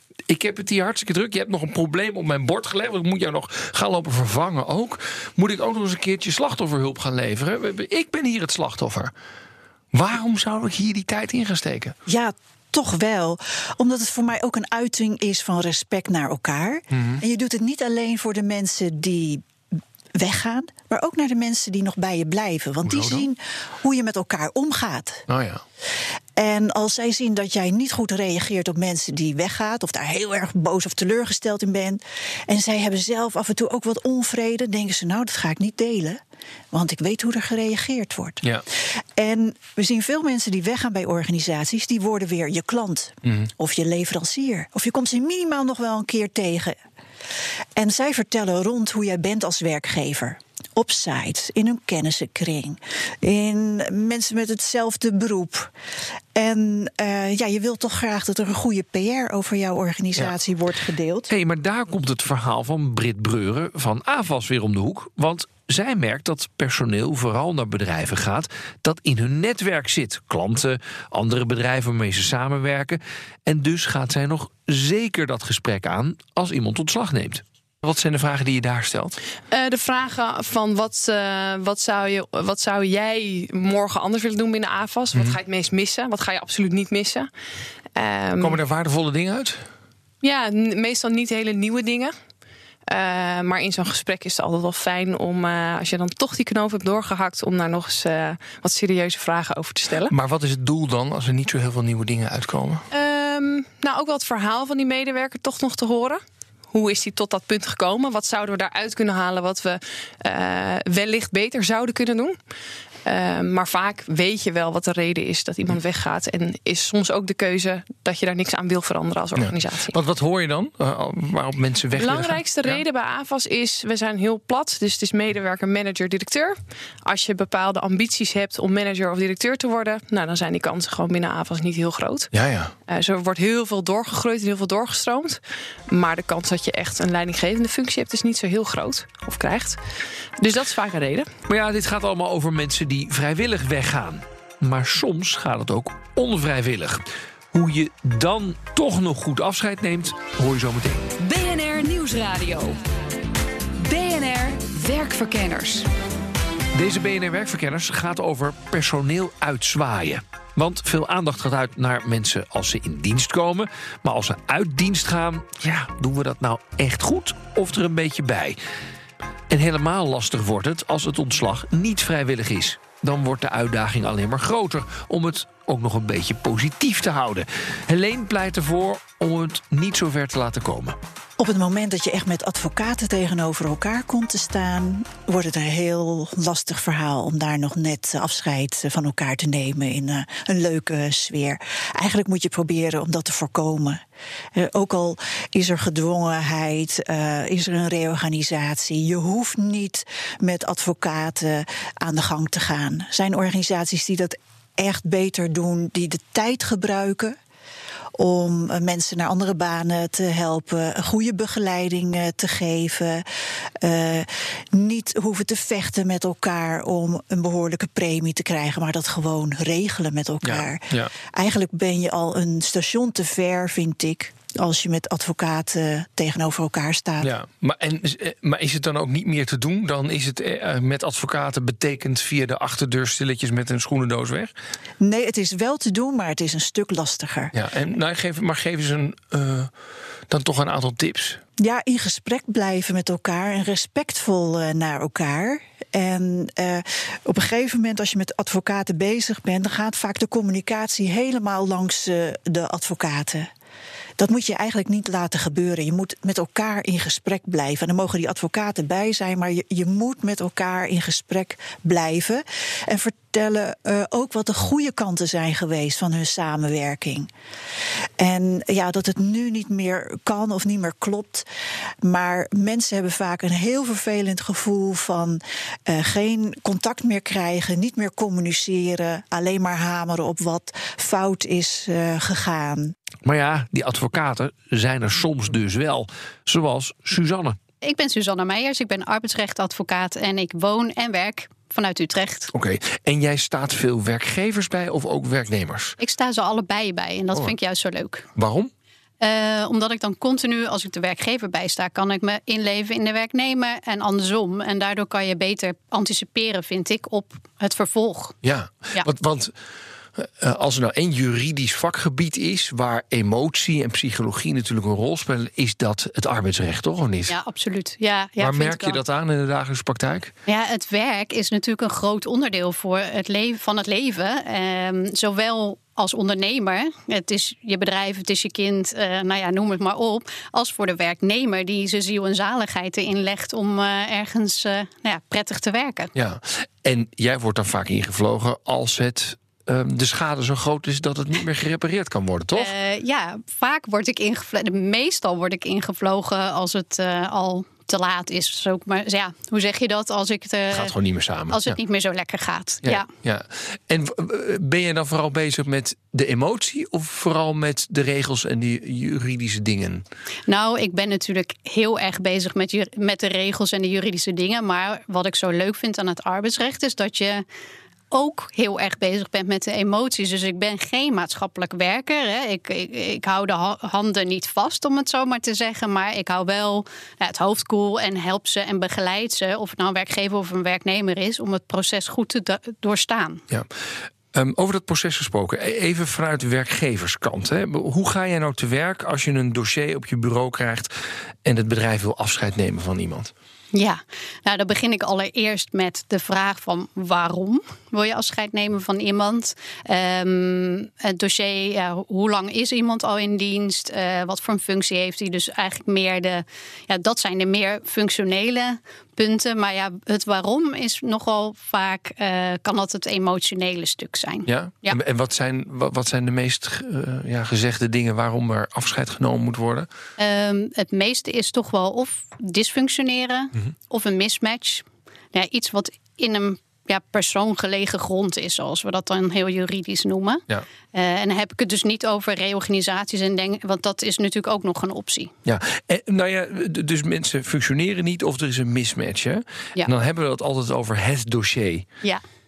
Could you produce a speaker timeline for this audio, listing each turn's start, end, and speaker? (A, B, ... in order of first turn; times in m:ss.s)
0:00.3-0:09.1 A
0:09.9-0:12.0 A
0:12.1-0:19.4 B
0:16.9-0:17.2 A
0:20.1-0:25.2 B
0:22.8-0:23.3 A
0:25.3-0:25.6 A
0:26.4-0:36.2 B
0:36.7-0:38.4 B
0:39.2-0:46.8 B
0:47.8-0:55.7 B
0:56.3-1:01.3 B
1:01.3-1:17.4 C
1:17.8-1:19.2 A
1:19.5-1:27.3 D
1:27.9-1:28.6 D
1:28.4-1:29.6 A
1:30.2-1:32.1 D
1:32.9-1:40.1 D
1:40.1-1:42.8 A
1:42.9-1:52.4 D
1:53.0-1:59.9 D
1:59.4-2:02.8 A
2:01.9-2:12.3 D
2:12.3-2:12.7 A
2:12.9-2:19.8 D
2:20.4-2:21.3 D
2:21.5-2:31.0 C
2:31.2-2:32.8 E
2:33.8-2:35.9 E
2:36.8-2:48.6 C
2:49.5-3:01.0 C
3:01.4-3:14.0 B
3:14.5-3:27.4 B
3:28.2-3:47.3 B
3:40.4-3:41.1 A
3:47.2-3:54.5 A
3:55.0-3:57.5 B
3:57.5-3:59.7 A
4:00.3-4:01.4 A
4:01.6-4:13.5 B
4:14.2-4:27.3 B
4:28.2-4:31.5 B
4:32.0-4:42.9 B
4:43.2-4:47.6 C
4:47.8-4:52.5 F
4:52.5-4:56.0 A
4:56.0-4:58.3 F
4:58.4-4:58.7 A
4:59.2-5:08.4 F
5:08.4-5:09.5 A
5:10.2-5:17.3 A
5:17.3-5:19.0 F
5:18.4-5:20.3 A
5:20.5-5:36.1 F
5:36.1-5:42.7 A
5:42.5-5:50.9 F
5:50.7-5:51.8 A
5:51.5-5:53.1 F
5:52.8-6:00.0 A
6:00.5-6:07.4 F
6:08.1-6:23.4 F
6:24.3-6:30.9 A
6:31.4-6:33.3 A
6:33.7-6:55.0 F
6:54.5-6:59.9 A
7:00.2-7:15.3 F
7:15.4-7:21.9 A